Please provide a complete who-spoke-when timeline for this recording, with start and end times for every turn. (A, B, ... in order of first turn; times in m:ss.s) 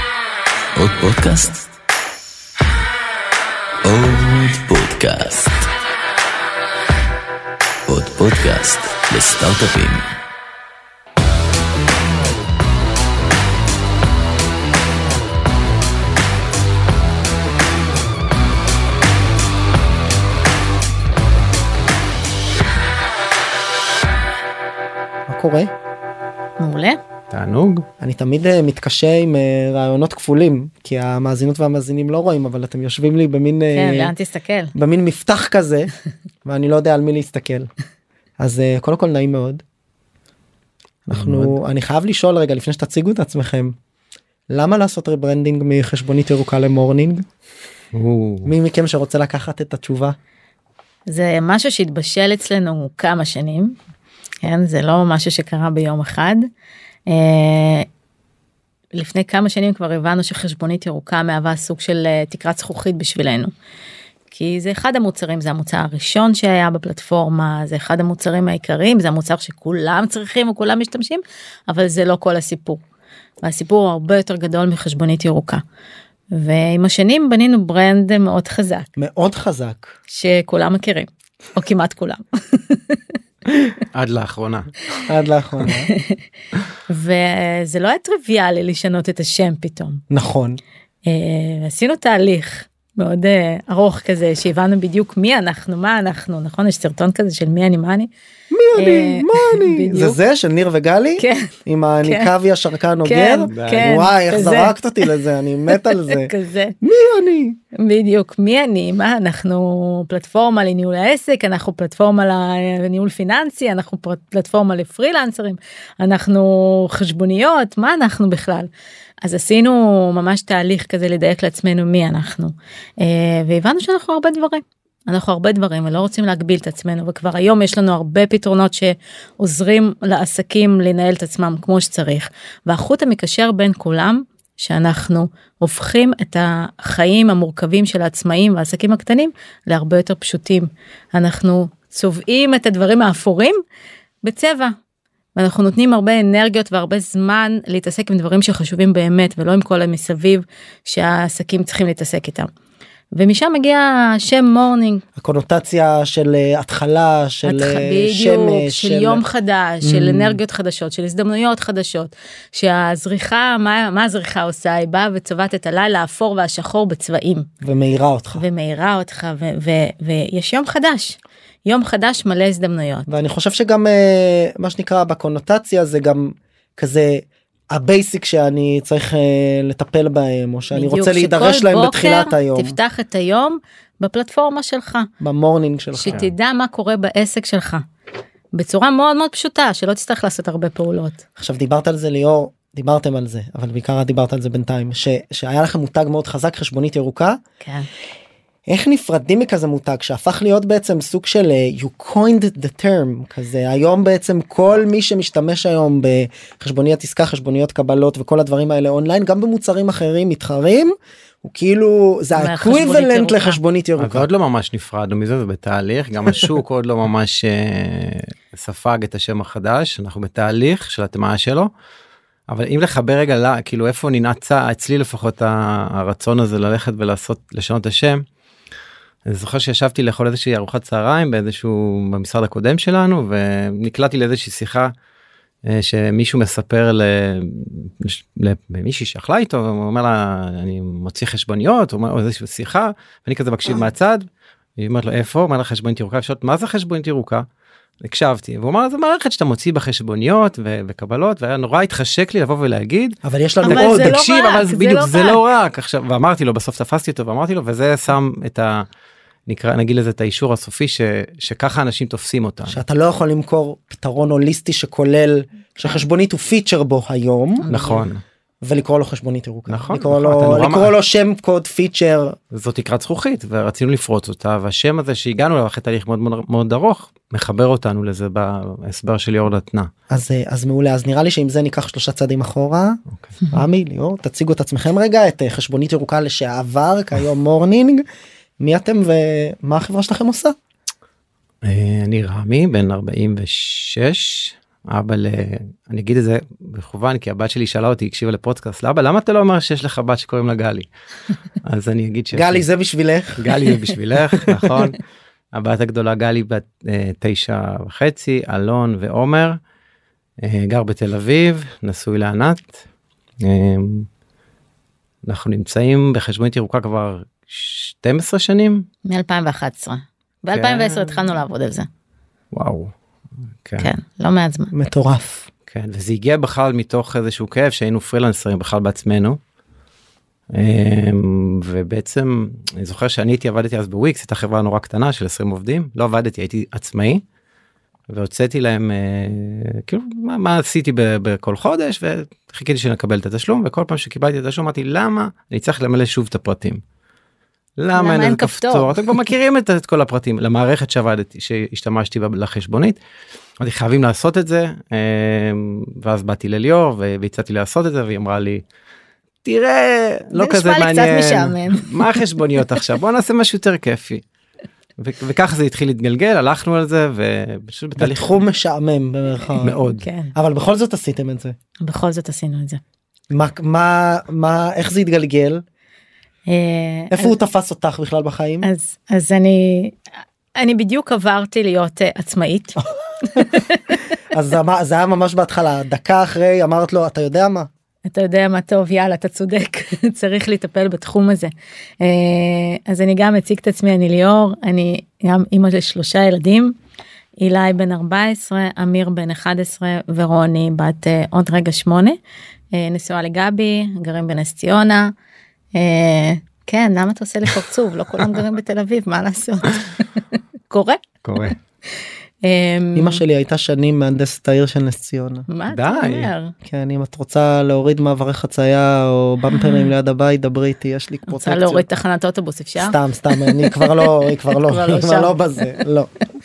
0:00.8-0:01.7 A
0:03.8-0:05.7 A
0:07.9-0:10.1 A
0:25.3-0:25.7 B
0:26.6-0:27.0 C
0:27.3-0:27.9 D
0:28.0-0:34.1 B
0:33.8-0:34.7 C
0:34.8-0:35.9 B
0:36.4-0:37.7 B
0:38.4-0:39.6 B
0:41.1-0:43.8 B
0:41.1-0:41.6 D
0:44.5-0:47.3 B
0:47.9-0:48.5 D
0:48.4-0:50.2 B
0:51.1-0:53.8 C
0:54.4-0:56.5 C
0:57.1-0:57.9 C
0:59.0-1:03.5 C
1:04.3-1:12.8 C
1:13.4-1:15.6 C
1:16.3-1:18.9 C
1:19.0-1:20.0 B
1:20.1-1:23.0 C
1:23.9-1:24.8 D
1:25.0-1:25.9 B
1:25.7-1:26.2 C
1:26.9-1:30.0 C
1:30.1-1:30.6 B
1:31.1-1:38.1 C
1:38.5-1:46.3 B
1:38.8-1:40.2 C
1:41.2-1:41.5 C
1:42.0-1:42.3 C
1:43.0-1:45.0 C
1:43.5-1:44.0 D
1:45.7-1:46.8 C
1:46.8-1:47.6 B
1:47.8-1:58.7 C
1:59.2-2:23.6 C
2:24.2-2:24.7 C
2:25.4-2:32.5 C
2:33.1-2:35.0 C
2:35.2-2:39.2 B
2:37.4-2:47.5 C
2:39.8-2:40.4 B
2:47.6-2:48.4 B
2:48.4-2:53.1 C
2:53.1-3:02.8 B
3:00.7-3:05.1 C
3:05.2-3:06.3 B
3:06.0-3:07.8 C
3:08.5-3:11.2 C
3:11.4-3:17.4 B
3:17.6-3:17.9 C
3:18.7-3:34.3 B
3:32.3-3:33.6 C
3:34.0-3:41.7 D
3:42.5-3:48.2 D
3:49.3-3:54.9 D
3:55.7-4:07.5 D
4:08.0-4:18.9 D
4:13.2-4:14.1 B
4:13.6-4:15.4 C
4:19.5-4:22.8 D
4:22.7-4:27.7 B
4:27.6-4:28.1 C
4:27.7-4:28.2 D
4:28.6-4:32.4 B
4:29.7-4:30.9 D
4:32.5-4:39.9 D
4:40.1-4:43.0 B
4:43.5-4:48.0 B
4:48.6-4:50.6 B
4:51.6-5:00.9 D
5:01.6-5:02.7 D
5:02.3-5:03.7 B
5:03.4-5:05.0 D
5:04.4-5:04.7 B
5:05.5-5:09.6 D
5:10.4-5:12.8 D
5:13.4-5:14.1 D
5:15.2-5:18.9 D
5:19.1-5:21.9 C
5:20.5-5:21.3 D
5:22.5-5:22.9 D
5:23.6-5:23.9 D
5:23.8-5:24.7 C
5:24.7-5:25.5 B
5:25.7-5:29.4 D
5:30.5-5:37.2 D
5:38.1-5:46.8 D
5:47.8-5:53.0 D
5:48.0-5:49.2 C
5:53.6-5:58.6 D
5:59.4-6:04.2 D
6:00.3-6:02.1 C
6:05.0-6:08.4 D
6:08.0-6:09.8 B
6:09.6-6:10.1 D
6:09.8-6:10.3 C
6:10.4-6:11.6 B
6:11.8-6:12.8 C
6:13.3-6:15.6 B
6:16.5-6:17.4 C
6:17.1-6:18.7 B
6:18.6-6:20.0 C
6:20.6-6:22.8 C
6:23.3-6:23.6 B
6:23.3-6:24.0 C
6:24.3-6:27.7 B
6:28.1-6:36.8 C
6:37.4-6:42.2 C
6:42.7-6:45.1 C
6:45.8-6:51.6 C
6:51.2-6:51.6 D
6:52.4-6:53.2 C
6:53.0-6:55.5 B
6:55.5-6:56.5 C
6:55.7-6:56.3 D
6:56.6-7:01.8 B
6:59.5-6:59.9 C
7:01.3-7:05.8 C
7:02.8-7:06.1 B